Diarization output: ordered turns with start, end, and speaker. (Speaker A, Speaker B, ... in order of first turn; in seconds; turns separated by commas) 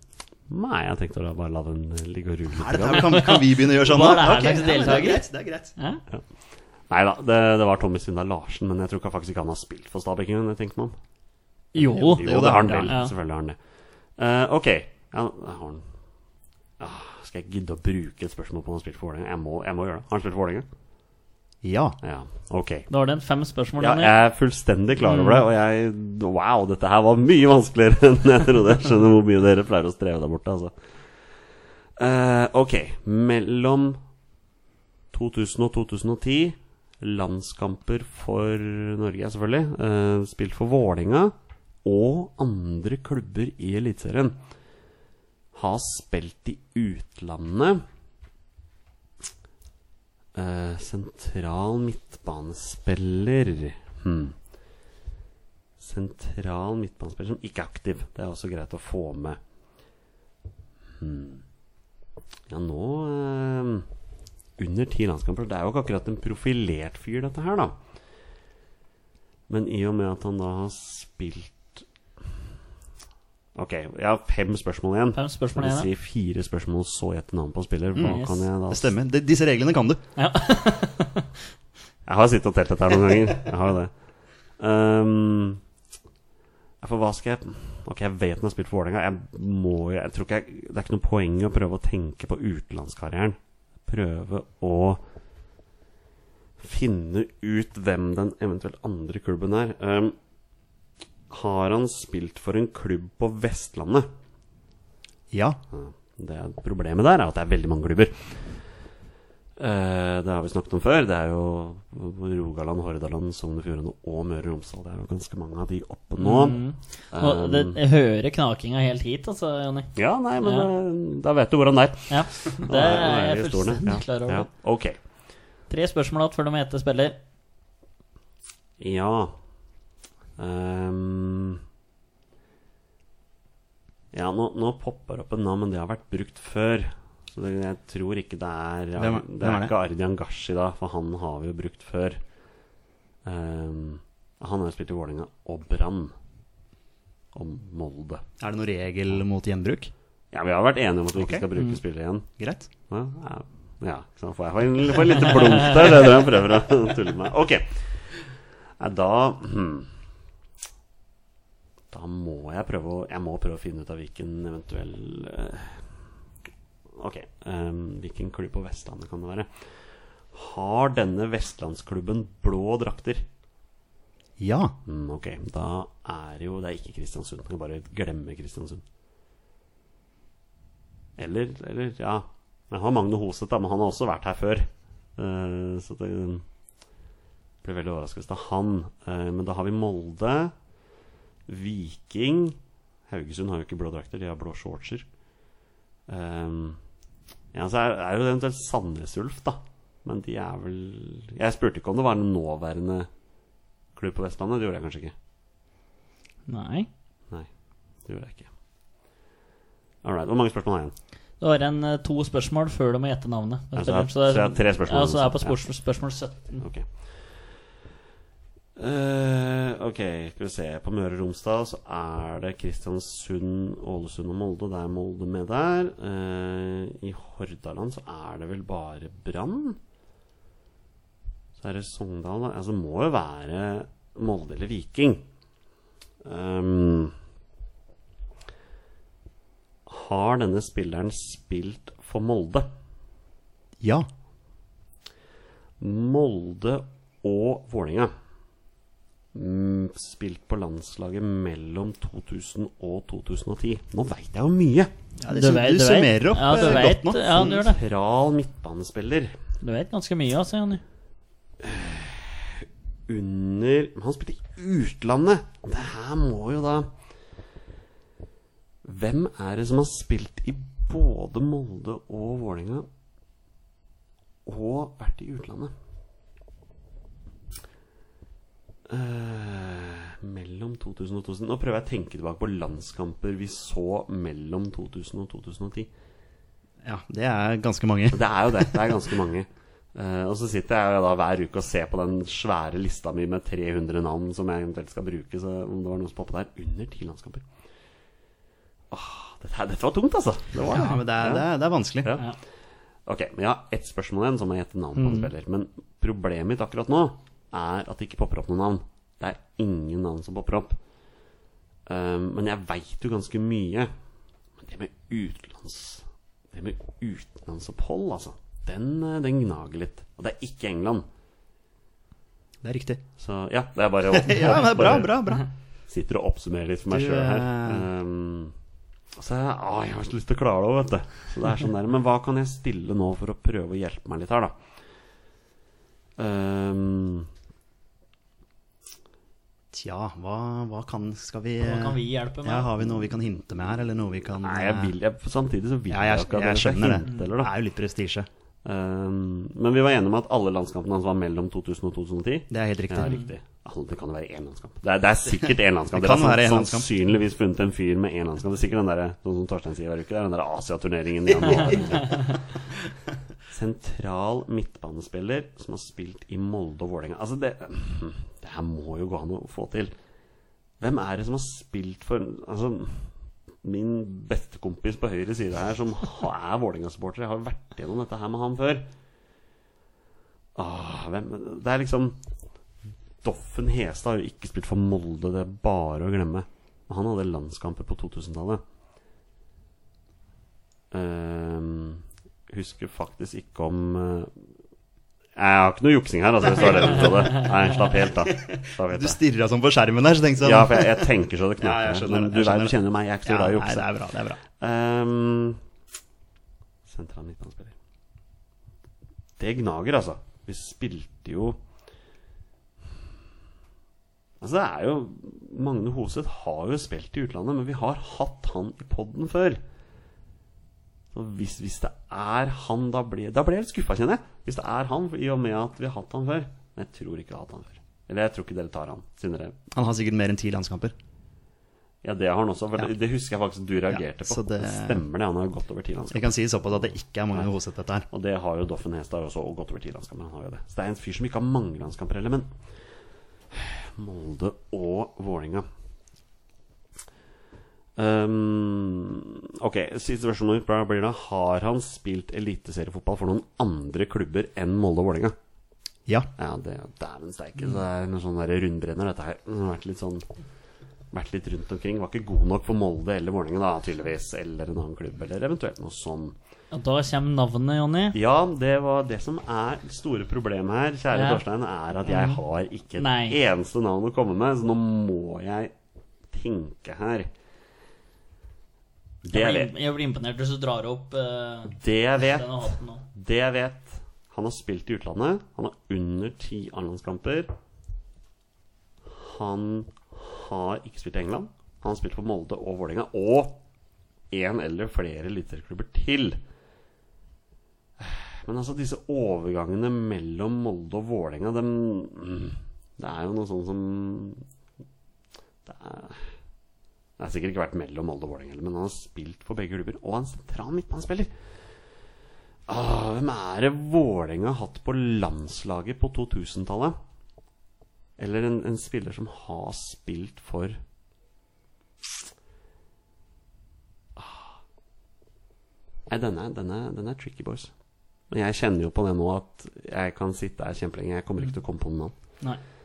Speaker A: 0.5-3.2, Speaker B: 2.5-5.7, Speaker C: 2.9-5.2, Speaker A: 6.9-10.9, Speaker C: 11.7-13.1, Speaker B: 11.9-12.9, Speaker A: 12.1-13.6, Speaker A: 14.2-15.8, Speaker A: 16.8-20.7, Speaker B: 21.6-22.0, Speaker A: 22.0-22.9, Speaker C: 22.9-24.1, Speaker A: 23.8-30.8, Speaker C: 25.0-25.4, Speaker A: 32.0-34.0, Speaker A: 35.1-41.3, Speaker A: 41.9-44.4, Speaker A: 45.5-47.8, Speaker A: 50.4-54.4, Speaker A: 55.8-59.4, Speaker A: 61.0-61.4, Speaker A: 62.5-63.9, Speaker A: 64.6-67.8, Speaker A: 69.5-71.8, Speaker A: 73.6-78.9, Speaker C: 75.2-75.9, Speaker B: 78.0-80.0, Speaker C: 78.0-78.4, Speaker C: 80.2-81.3, Speaker A: 82.1-83.9, Speaker A: 84.6-85.6, Speaker A: 86.8-95.0, Speaker A: 96.6-100.2, Speaker A: 101.3-104.1, Speaker B: 105.3-105.6, Speaker A: 105.7-108.4, Speaker A: 109.6-117.8, Speaker C: 116.2-120.7, Speaker A: 120.0-125.0, Speaker C: 122.1-124.5, Speaker C: 125.7-127.2, Speaker A: 128.8-129.3, Speaker A: 130.4-131.6, Speaker A: 134.1-142.2, Speaker B: 139.0-139.7, Speaker A: 143.2-146.1, Speaker A: 147.3-148.2, Speaker B: 148.4-149.9, Speaker A: 150.3-152.3, Speaker B: 151.2-151.4, Speaker B: 152.4-152.7, Speaker A: 152.9-157.8, Speaker A: 158.8-159.9, Speaker A: 161.9-165.8, Speaker A: 166.9-169.5, Speaker A: 170.3-173.2, Speaker B: 174.4-174.8, Speaker A: 174.9-178.8, Speaker A: 181.2-186.4, Speaker A: 187.6-190.5, Speaker A: 191.5-192.6, Speaker A: 193.1-195.1, Speaker A: 196.1-196.8, Speaker A: 197.5-203.1, Speaker A: 204.0-205.1, Speaker C: 206.5-206.9, Speaker A: 208.1-208.5, Speaker A: 210.0-210.9, Speaker C: 211.4-216.6, Speaker A: 213.8-215.6, Speaker A: 216.6-216.9, Speaker A: 218.8-229.8, Speaker A: 231.6-235.2, Speaker A: 236.2-237.1, Speaker A: 239.9-242.7, Speaker B: 243.8-244.1, Speaker A: 245.8-248.1, Speaker A: 249.3-254.9, Speaker B: 255.2-257.6, Speaker C: 255.3-257.8, Speaker A: 256.6-259.4, Speaker C: 259.6-260.8, Speaker A: 261.6-266.9, Speaker A: 268.8-272.9, Speaker A: 274.5-275.7, Speaker A: 278.9-285.9, Speaker B: 286.8-288.8, Speaker A: 288.1-297.4, Speaker A: 298.9-301.5, Speaker B: 300.6-302.1, Speaker A: 302.0-302.3, Speaker A: 303.1-310.8, Speaker C: 305.0-305.3, Speaker A: 311.9-313.9, Speaker A: 314.6-321.1, Speaker B: 322.6-323.0, Speaker A: 323.2-325.2, Speaker B: 324.1-325.4, Speaker A: 325.9-328.5, Speaker B: 326.9-327.9, Speaker A: 329.2-334.6, Speaker A: 336.2-337.3, Speaker B: 339.7-344.9, Speaker C: 341.6-342.7, Speaker A: 344.4-347.5, Speaker B: 345.9-348.3, Speaker A: 348.6-362.4, Speaker B: 352.5-353.2, Speaker B: 355.9-356.9, Speaker B: 361.5-361.8, Speaker A: 363.5-369.9, Speaker A: 370.8-373.1, Speaker A: 373.6-378.9, Speaker A: 380.6-382.2, Speaker A: 383.2-388.6, Speaker A: 390.9-394.3, Speaker A: 395.4-399.2, Speaker B: 396.5-397.5, Speaker B: 398.3-404.4, Speaker A: 400.4-403.9, Speaker A: 404.6-405.6, Speaker A: 406.9-407.7, Speaker A: 409.4-411.6, Speaker A: 414.4-419.6, Speaker A: 421.1-429.6, Speaker B: 429.7-430.9, Speaker A: 432.0-436.5, Speaker B: 433.9-435.0, Speaker B: 436.1-438.1, Speaker A: 438.1-442.5, Speaker A: 443.5-445.7, Speaker A: 448.0-455.4, Speaker A: 456.4-460.2, Speaker A: 461.1-466.4, Speaker C: 466.7-468.2, Speaker A: 468.1-475.7, Speaker C: 471.1-471.4, Speaker C: 472.1-472.4, Speaker C: 473.0-473.4, Speaker A: 476.3-477.3, Speaker A: 479.2-479.7, Speaker C: 479.3-483.0, Speaker A: 481.7-487.5, Speaker A: 489.1-493.6, Speaker A: 494.3-496.4, Speaker A: 498.0-504.4, Speaker A: 505.7-506.2, Speaker A: 507.2-511.3, Speaker A: 512.7-517.0, Speaker A: 518.2-520.8, Speaker A: 524.2-524.6, Speaker A: 526.1-527.7, Speaker A: 528.3-532.1